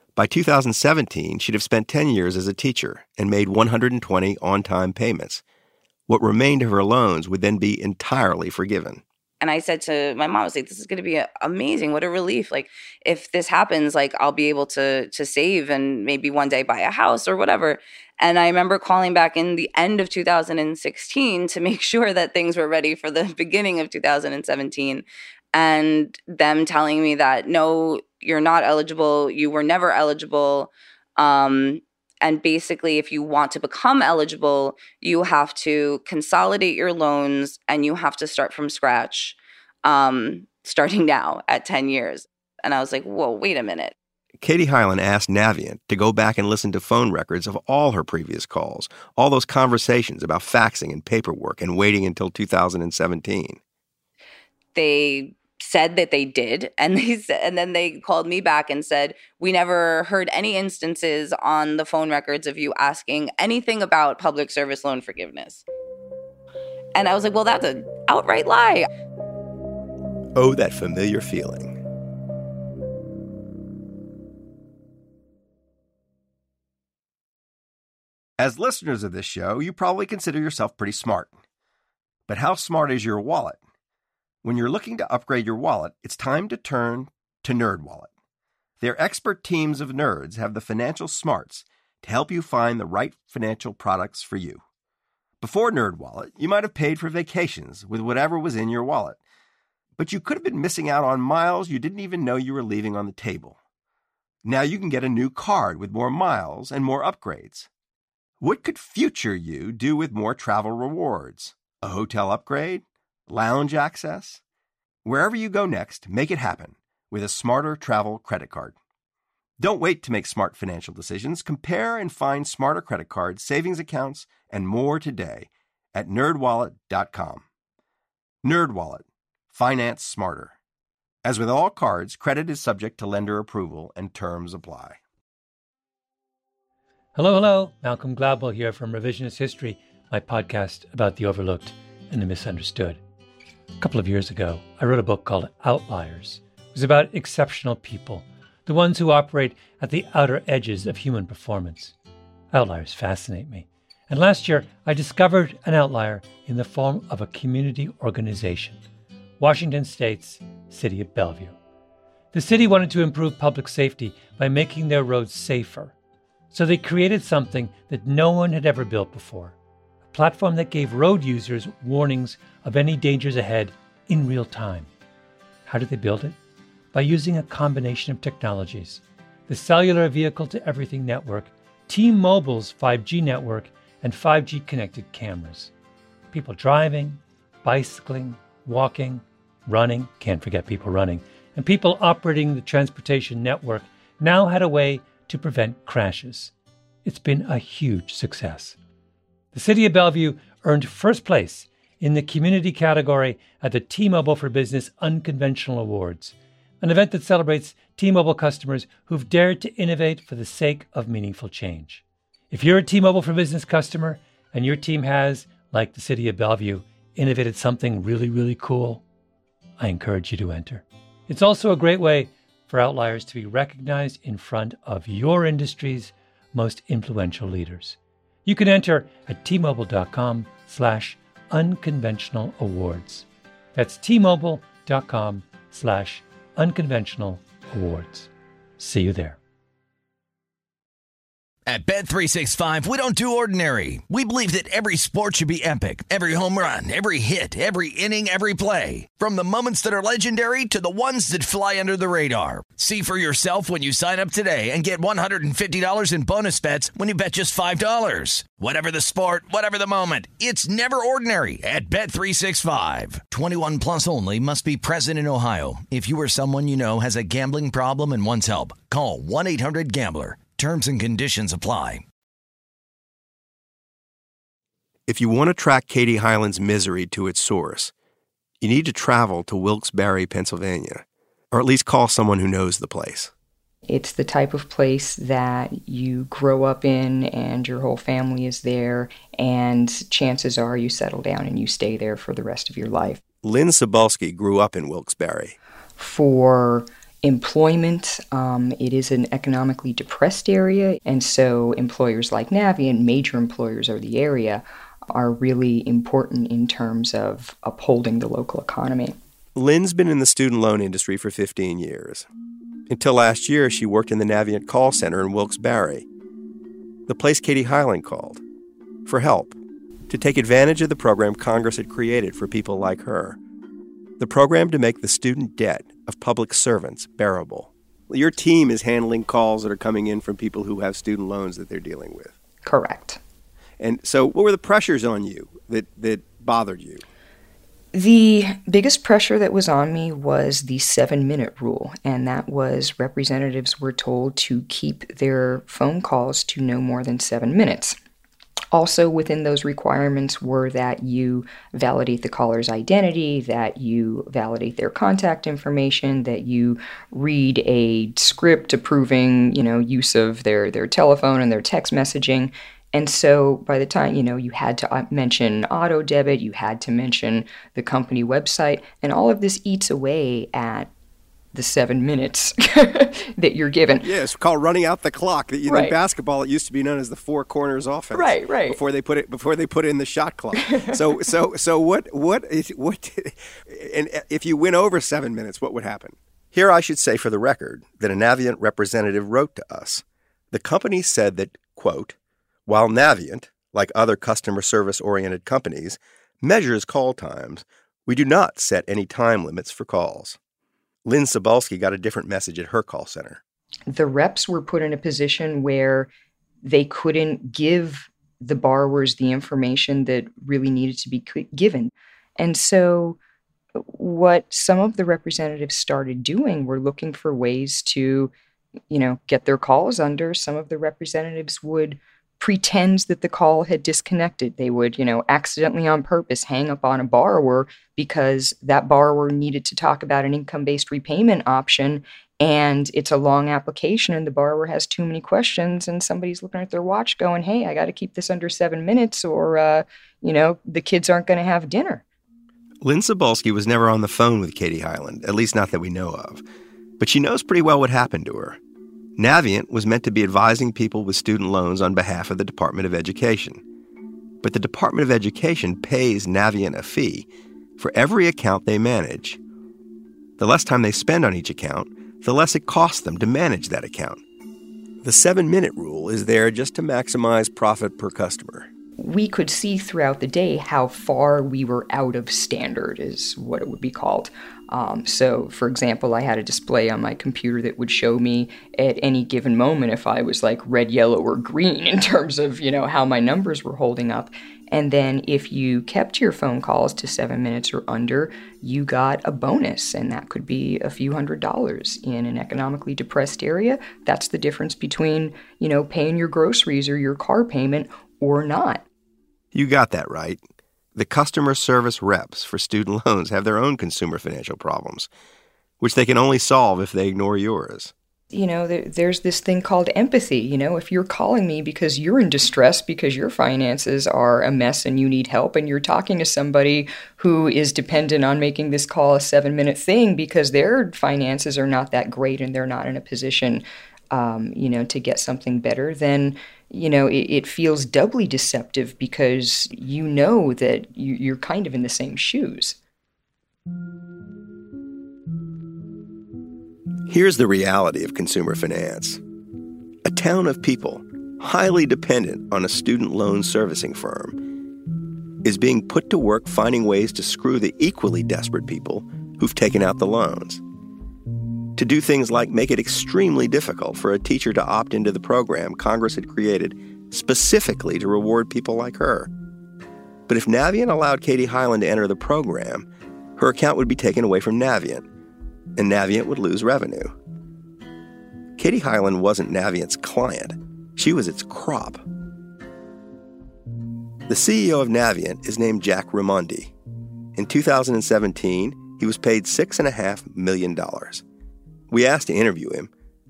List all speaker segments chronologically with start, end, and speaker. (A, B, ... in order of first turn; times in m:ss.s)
0:00.2-0:05.4 A
0:06.1-0:09.0 A
0:09.4-0:43.9 B
0:44.4-0:53.6 A
0:54.7-1:05.6 B
1:06.9-1:08.9 B
1:10.3-1:11.8 A
1:18.4-1:21.3 A
1:22.3-1:23.6 A
1:24.4-1:28.1 A
1:28.8-1:34.6 A
1:35.4-1:39.2 A
1:40.0-1:43.6 A
1:44.4-1:47.7 A
1:48.4-1:54.4 A
1:55.0-1:58.8 A
1:59.6-2:07.4 A
2:08.4-2:10.6 A
2:11.2-2:15.0 A
2:17.1-2:23.0 C
2:23.8-2:31.9 C
2:32.5-2:38.8 C
2:39.4-2:41.6 C
2:42.3-2:45.9 C
2:46.5-2:49.5 C
2:50.1-2:54.9 C
2:55.6-2:56.4 C
2:56.9-3:05.7 C
3:06.3-3:16.5 C
3:17.0-3:18.8 C
3:19.5-3:39.0 C
3:39.8-3:59.4 C
4:01.7-4:32.0 D
4:35.1-4:37.9 A
4:38.6-4:43.3 A
4:43.9-4:53.2 E
4:53.4-4:55.6 A
4:56.0-5:09.2 E
5:09.5-5:12.3 A
5:12.9-5:16.0 A
5:17.1-5:18.4 A
5:19.0-5:19.6 A
5:20.1-5:23.4 A
5:24.2-5:32.3 A
5:32.6-5:33.2 E
5:33.8-5:37.0 A
5:37.9-5:48.0 E
5:48.7-6:10.9 E
6:11.5-6:14.1 E
6:14.0-6:40.4 A
6:15.6-6:16.0 E
6:18.1-6:18.8 E
6:20.6-6:20.9 E
6:41.0-6:43.4 A
6:43.9-6:46.1 E
6:46.6-6:53.2 E
6:53.8-6:58.3 E
6:58.9-7:22.0 E
7:22.8-7:26.4 A
7:27.0-7:28.6 A
7:29.2-7:33.6 A
7:34.4-7:39.4 A
7:40.4-7:44.2 A
7:45.0-7:48.7 A
7:49.0-8:18.8 E
8:19.5-8:20.4 A
8:20.9-8:25.1 A
8:25.8-8:27.9 A
8:28.3-8:52.8 E
8:57.1-8:59.2 A
9:00.0-9:04.4 A
9:05.4-9:10.6 A
9:11.8-9:19.3 A
9:20.3-9:25.1 A
9:25.8-9:27.1 A
9:28.6-9:32.0 A
9:34.3-9:36.7 A
9:37.4-9:41.2 A
9:41.9-9:42.9 A